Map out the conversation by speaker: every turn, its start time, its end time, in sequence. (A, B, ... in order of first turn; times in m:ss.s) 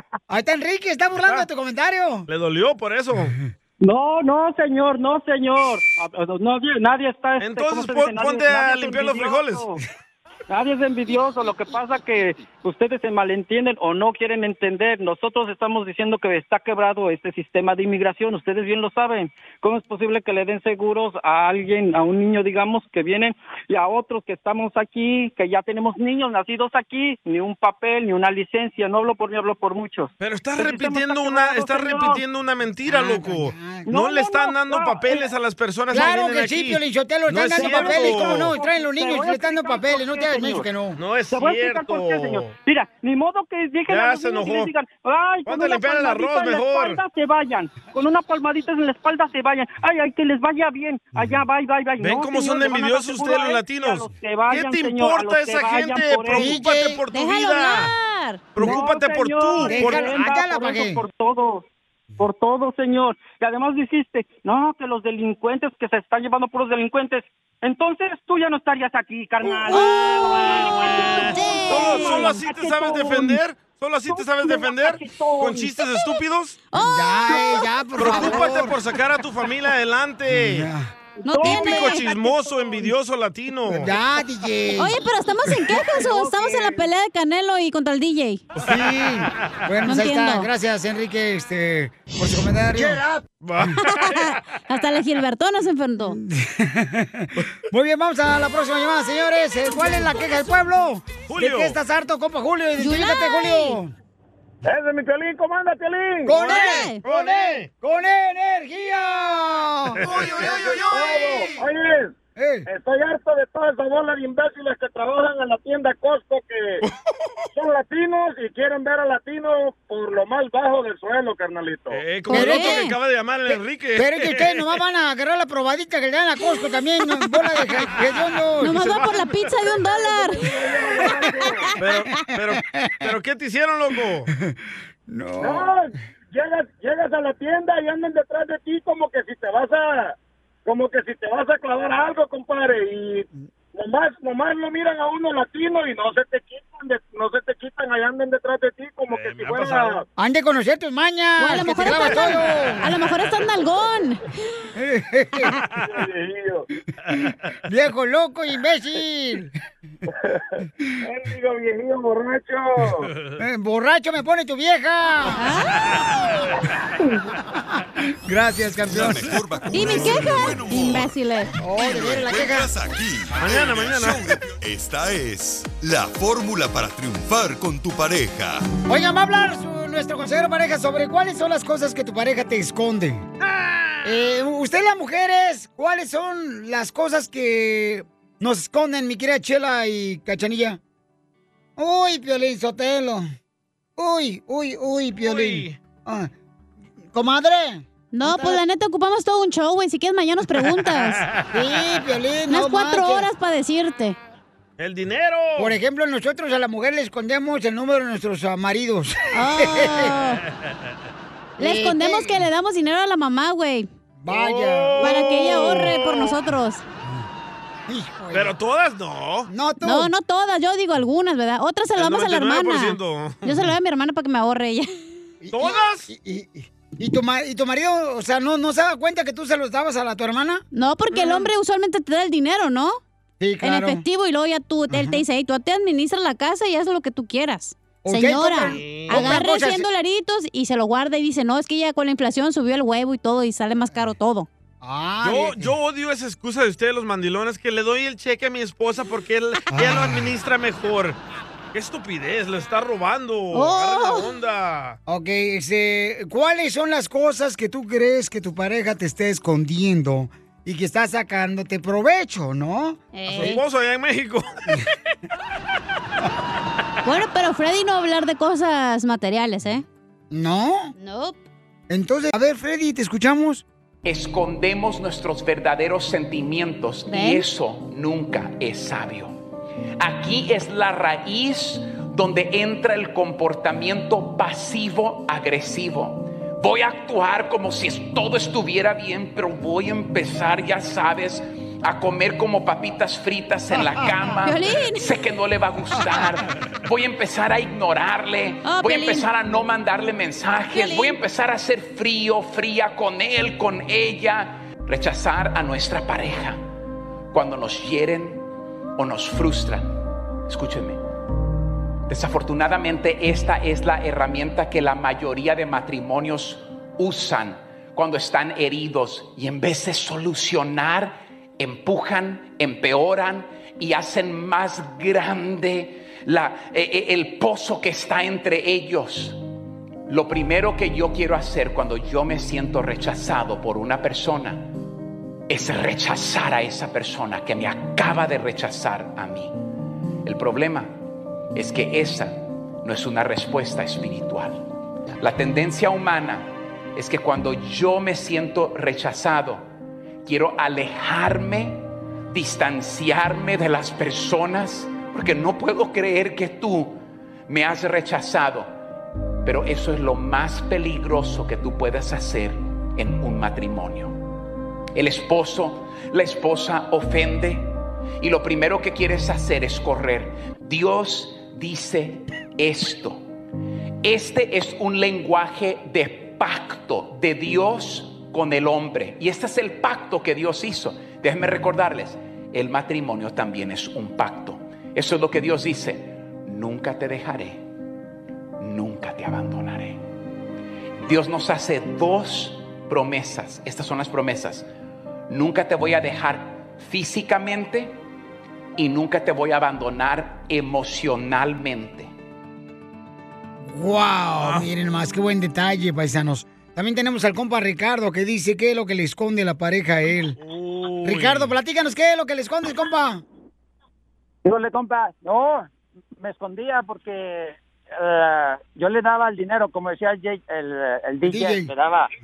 0:00.3-0:02.3 A
0:01.2-0:01.5 B
0:02.3-0:03.4 B
0:03.8-0:09.8 C
0:07.4-0:09.7 B
0:10.5-0:32.2 C
0:30.2-0:38.6 B
0:32.9-0:33.9 A
0:33.9-0:35.3 C
0:35.9-0:41.0 A
0:37.5-0:40.7 C
0:41.0-0:42.5 B
0:41.3-0:56.5 C
0:43.9-0:44.7 B
0:45.5-0:47.0 B
0:52.0-0:58.0 B
0:56.3-0:57.0 A
0:57.1-0:58.6 D
0:58.6-1:00.2 B
0:58.6-1:01.6 C
0:59.6-1:01.0 A
1:02.2-1:13.4 C
1:09.5-1:16.6 B
1:09.7-1:12.4 D
1:14.1-1:15.8 C
1:16.7-1:17.6 D
1:16.8-1:18.8 A
1:18.0-1:20.7 B
1:20.3-1:20.9 A
1:21.2-1:22.9 C
1:21.2-1:22.2 D
1:21.4-1:23.9 B
1:23.7-1:25.0 A
1:24.8-1:28.4 D
1:28.6-1:33.0 A
1:29.8-1:30.5 D
1:33.4-1:34.4 B
1:33.9-1:36.2 D
1:36.1-1:43.9 A
1:41.3-1:41.8 B
1:42.8-1:43.8 D
1:44.6-1:46.4 E
1:46.3-1:50.1 A
1:46.3-1:47.7 B
1:46.4-1:47.0 D
1:50.0-1:50.9 B
1:50.1-1:51.5 F
1:50.2-1:52.1 E
1:52.4-1:52.7 A
1:52.7-1:56.8 E
1:57.6-2:02.0 E
2:01.9-2:04.7 B
2:02.3-2:02.9 D
2:02.3-2:02.9 A
2:03.5-2:08.9 A
2:08.6-2:10.6 D
2:08.7-2:09.8 B
2:10.0-2:11.7 E
2:11.1-2:11.8 D
2:11.8-2:14.3 B
2:12.6-2:13.1 A
2:15.1-2:15.7 A
2:15.4-2:30.0 E
2:29.1-2:30.0 B
2:30.2-2:32.9 A
2:31.4-2:34.2 D
2:34.8-2:35.5 A
2:35.8-2:36.7 E
2:37.1-2:39.5 A
2:41.0-2:43.1 E
2:43.4-2:45.5 A
2:45.4-2:45.7 D
2:48.2-2:49.9 A
2:48.8-2:51.1 F
2:49.7-2:51.5 D
2:51.6-2:52.7 A
2:51.7-2:58.7 F
2:53.4-2:54.4 B
2:58.9-3:03.3 A
3:03.4-3:04.1 B
3:04.0-3:10.8 A
3:11.8-3:13.3 A
3:14.0-3:16.3 A
3:15.2-3:15.8 B
3:17.1-3:18.6 A
3:18.1-3:21.2 D
3:21.5-3:23.3 A
3:22.5-3:24.2 D
3:24.8-3:25.8 B
3:25.6-3:30.1 A
3:29.4-3:30.4 D
3:31.6-3:33.9 D
3:31.6-3:32.4 A
3:34.2-3:35.8 A
3:34.3-3:36.4 B
3:35.0-3:36.8 D
3:37.9-3:38.5 A
3:38.3-3:39.5 B
3:39.5-3:40.1 A
3:39.8-3:44.9 D
3:42.0-3:43.7 B
3:45.4-3:50.6 A
3:45.5-3:46.1 B
3:50.7-3:53.0 D
3:51.1-3:51.5 B
3:53.4-3:54.0 A
3:53.6-4:04.5 D
3:54.9-3:55.2 A
3:58.0-3:59.9 A
3:58.7-3:59.4 B
4:04.8-4:05.7 A
4:05.2-4:11.2 B
4:09.7-4:10.3 A
4:11.7-4:15.0 B
4:13.5-4:14.3 D
4:15.1-4:23.5 A
4:23.1-4:23.6 D
4:23.3-4:24.5 B
4:27.0-4:29.8 D
4:30.3-4:30.9 A
4:31.0-4:31.4 D
4:31.9-4:33.6 A
4:34.0-4:39.4 G
4:37.1-4:37.5 D
4:40.0-5:06.7 G
4:54.4-4:55.2 D
4:58.6-4:59.3 D
5:00.7-5:01.2 D
5:07.3-5:08.5 G
5:09.0-5:09.9 G
5:10.5-5:11.0 G
5:12.1-5:29.4 G
5:30.1-5:34.7 G
5:35.5-5:39.6 G
5:40.2-5:41.0 G
5:41.6-5:44.7 G
5:45.2-5:49.7 G
5:50.2-5:58.7 G
5:59.4-6:04.2 G
6:05.0-6:13.3 G
6:14.0-6:27.6 G
6:28.6-6:30.0 G
6:31.0-6:34.7 G
6:35.3-6:38.0 G
6:38.8-6:42.1 G
6:43.7-6:50.4 A
6:44.4-6:44.7 B
6:50.4-6:51.5 B
6:51.0-6:53.2 A
6:54.4-6:55.7 H
6:56.2-7:02.1 H
7:01.2-7:01.7 A